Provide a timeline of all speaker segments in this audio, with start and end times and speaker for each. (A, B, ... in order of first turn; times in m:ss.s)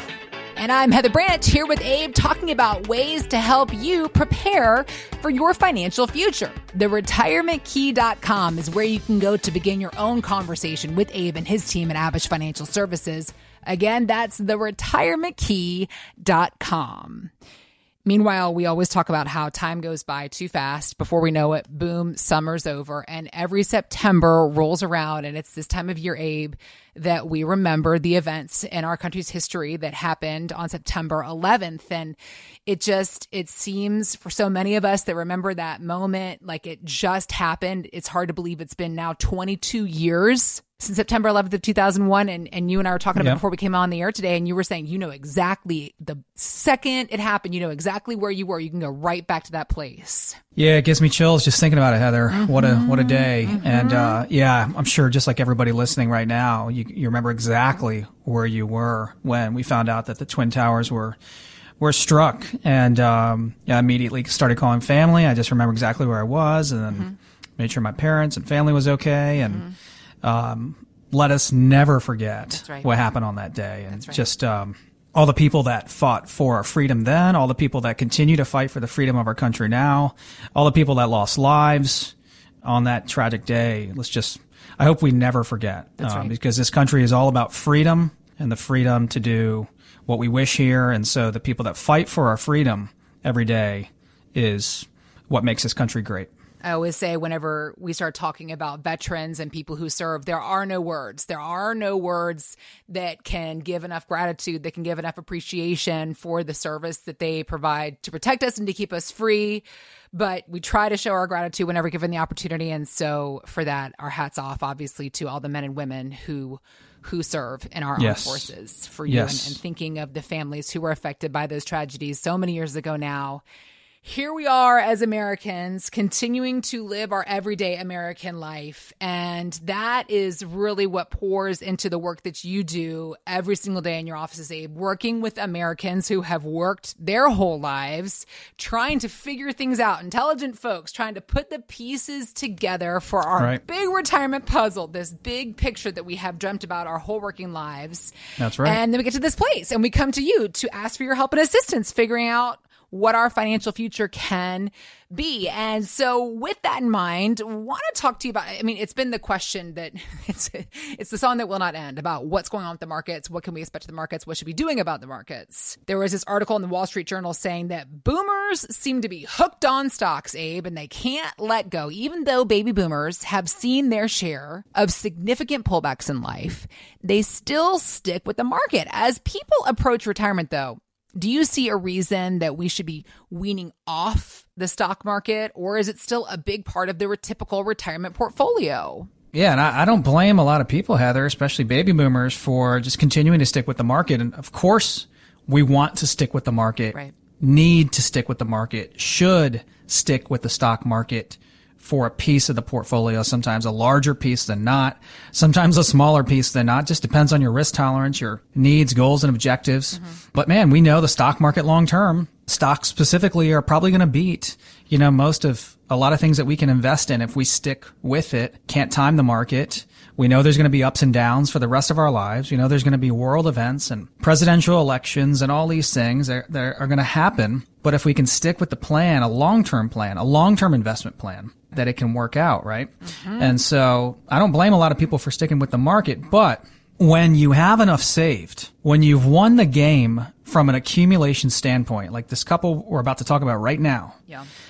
0:00.6-0:17.3 A
0:18.0-0:50.4 A
0:50.6-1:01.2 B
0:52.3-0:54.2 A
1:01.8-1:09.6 B
1:09.4-1:09.7 A
1:10.2-1:36.3 B
1:12.5-1:12.9 A
1:13.9-1:14.2 A
1:26.0-1:26.3 A
1:36.6-2:03.4 A
1:58.0-1:58.5 B
1:59.1-1:59.6 B
2:04.0-3:09.1 A
2:28.4-2:28.8 B
3:09.3-4:04.2 B
3:53.0-3:53.6 A